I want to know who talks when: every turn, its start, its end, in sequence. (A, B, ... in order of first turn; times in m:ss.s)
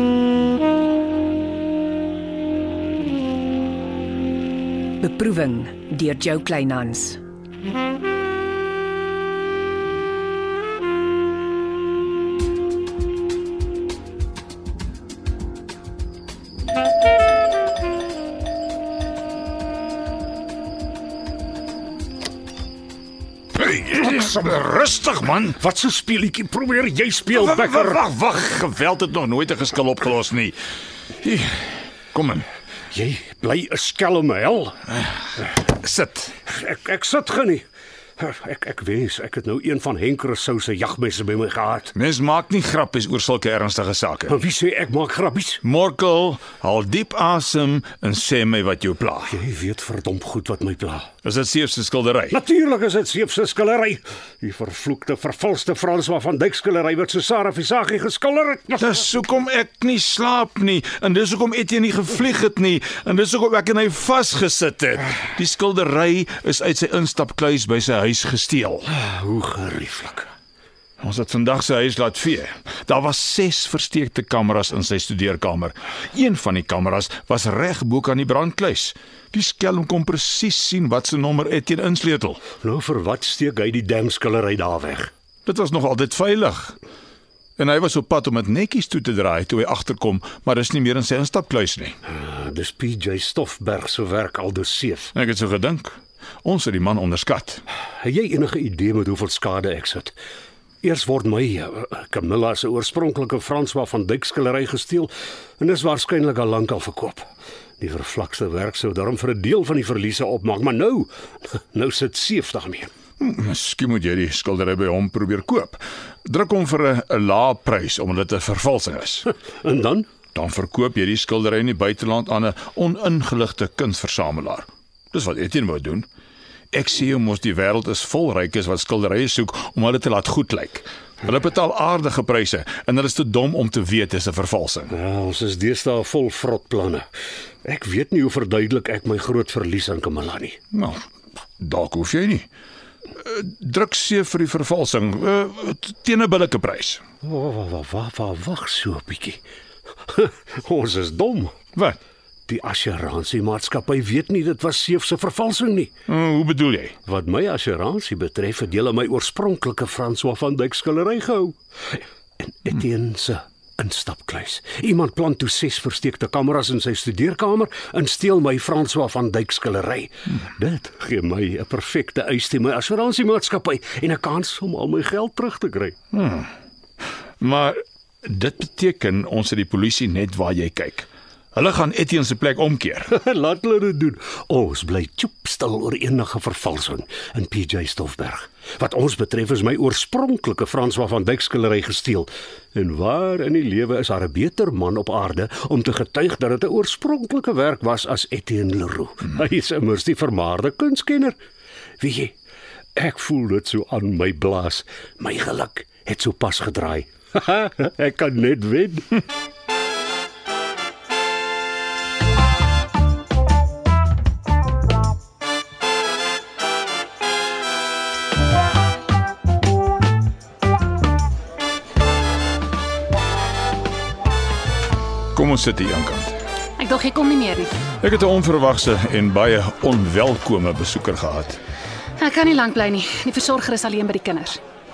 0:05.0-0:07.2 A
0:23.5-0:25.6 B
0:25.6-0:28.0 C
0:27.3-0:30.6 B
0:31.2-0:32.5 B
0:32.9-0:34.8 C
0:35.6-0:36.3 B
0:36.4-0:37.6 C
0:38.2-0:41.9 C
0:41.9-0:44.4 B
0:44.3-0:45.6 C
0:45.6-0:49.4 B
0:49.3-0:51.1 C
0:51.2-0:52.4 B
0:52.3-0:59.0 C
0:58.8-1:08.8 B
1:08.9-1:10.3 C
1:11.0-1:22.4 B
1:22.5-1:25.1 C
1:25.4-1:26.8 B
1:27.6-1:32.0 B
1:32.1-1:35.1 C
1:35.1-1:37.6 B
1:38.0-1:40.1 C
1:40.8-1:47.3 C
1:47.8-1:52.9 C
1:53.2-1:59.3 B
1:59.6-2:00.1 C
2:00.3-2:06.1 B
2:06.7-2:14.9 B
2:14.9-2:17.1 C
2:17.6-2:20.6 C
2:20.7-2:21.0 B
2:21.6-2:22.5 B
2:23.2-2:27.0 B
2:27.2-2:29.4 C
2:30.1-2:31.5 C
2:32.5-2:35.9 C
2:36.1-2:37.0 B
2:37.0-2:55.9 C
2:56.1-2:56.5 B
2:57.4-3:03.1 B
3:03.1-3:21.3 C
3:22.0-3:22.3 C
3:23.0-3:29.2 C
3:45.3-3:46.4 B
3:46.8-3:47.8 D
3:48.0-3:51.6 B
3:52.2-3:54.6 D